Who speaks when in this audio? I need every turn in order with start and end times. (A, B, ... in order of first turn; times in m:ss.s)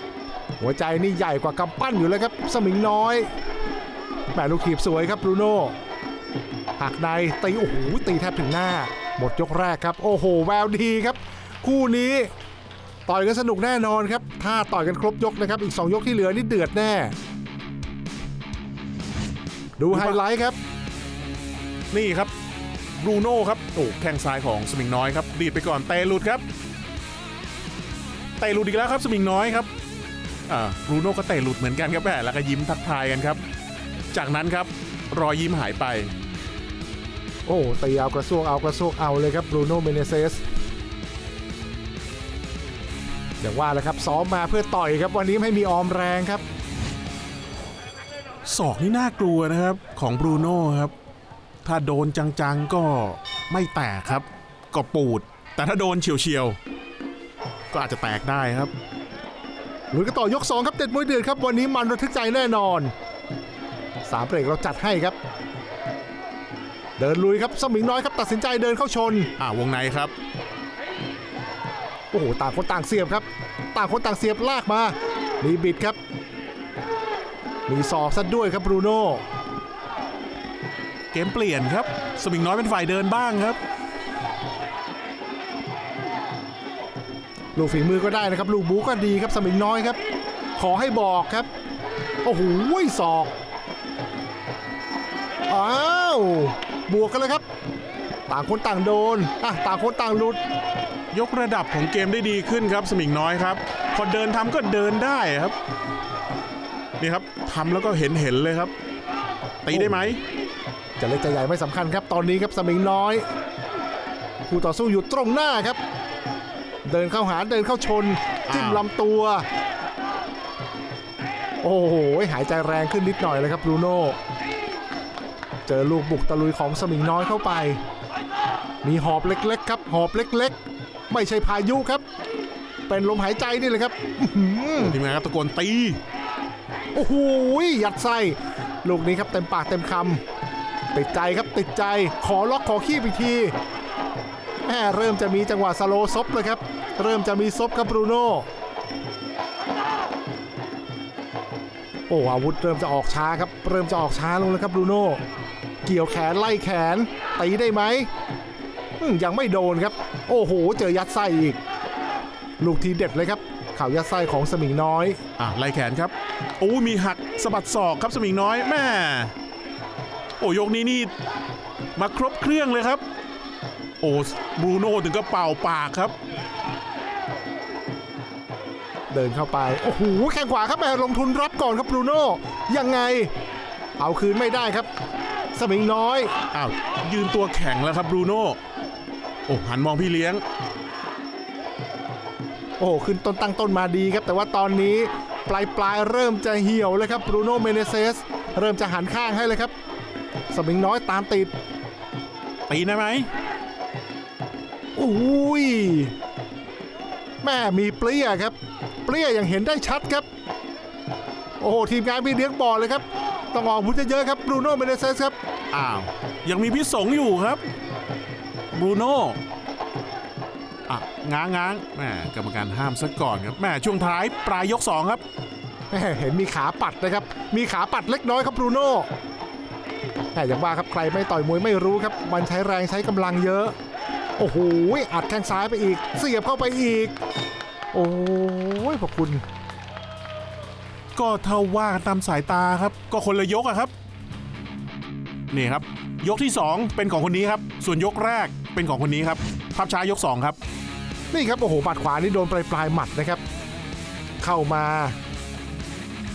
0:00.6-0:03.3 A
0:04.3-0:05.8 A
0:06.8-0:12.3 A
0:13.1-0:17.1 A
0:19.8-0:20.6 A
0:19.9-0:20.2 B
0:21.9-0:22.3 B
0:23.0-0:26.4 B
0:28.4-0:29.7 B
0:30.5-0:33.4 B
0:34.1-0:36.1 B
0:37.4-0:40.4 A
0:43.4-0:46.4 A
0:48.4-0:50.9 B
0:51.6-0:56.6 B
0:57.7-0:58.7 B
0:59.9-1:02.9 A
1:04.0-1:05.2 A
1:07.0-1:09.3 A
1:09.4-1:10.1 B
1:12.1-1:16.0 A
1:17.7-1:19.2 A
1:21.1-1:23.6 B
1:27.5-1:30.0 A
1:30.6-1:31.5 A
1:32.2-1:33.3 A
1:35.5-1:37.4 A
1:38.3-1:40.4 A
1:41.1-1:45.5 B
1:47.0-1:48.7 B
1:49.6-1:50.2 B
1:49.7-1:50.1 A
1:51.0-1:53.2 A
1:54.5-1:55.8 A
1:56.8-1:59.4 A
1:58.5-1:58.8 B
2:01.6-2:04.2 A
2:05.6-2:07.8 A
2:08.8-2:10.6 A
2:11.1-2:12.0 A
2:12.9-2:15.0 A
2:14.7-2:16.0 B
2:16.9-2:20.2 A
2:20.9-2:23.5 A
2:24.6-2:28.5 A
2:32.1-2:35.2 A
2:35.8-2:38.1 A
2:39.0-2:41.6 A
2:42.6-2:45.2 A
2:45.4-2:49.3 B
2:50.4-2:51.1 B
2:52.0-2:53.0 B
2:54.0-2:56.1 B
2:59.1-3:03.3 A
3:04.0-3:04.9 A
3:05.5-3:06.3 A
3:06.5-3:08.6 B
3:09.5-3:10.4 B
3:12.8-3:19.7 A
3:20.5-3:21.5 A
3:22.7-3:23.3 B
3:24.9-3:26.1 A
3:27.4-3:30.2 A
3:31.6-3:35.4 A
3:35.7-3:37.6 B
3:38.7-3:39.4 B
3:40.9-3:45.2 B
3:45.9-3:49.1 A
3:50.3-3:53.8 A
3:54.4-3:57.2 A
3:57.9-3:59.4 A
4:01.1-4:03.9 B
4:05.5-4:10.6 B
4:11.3-4:13.4 A
4:14.4-4:15.2 A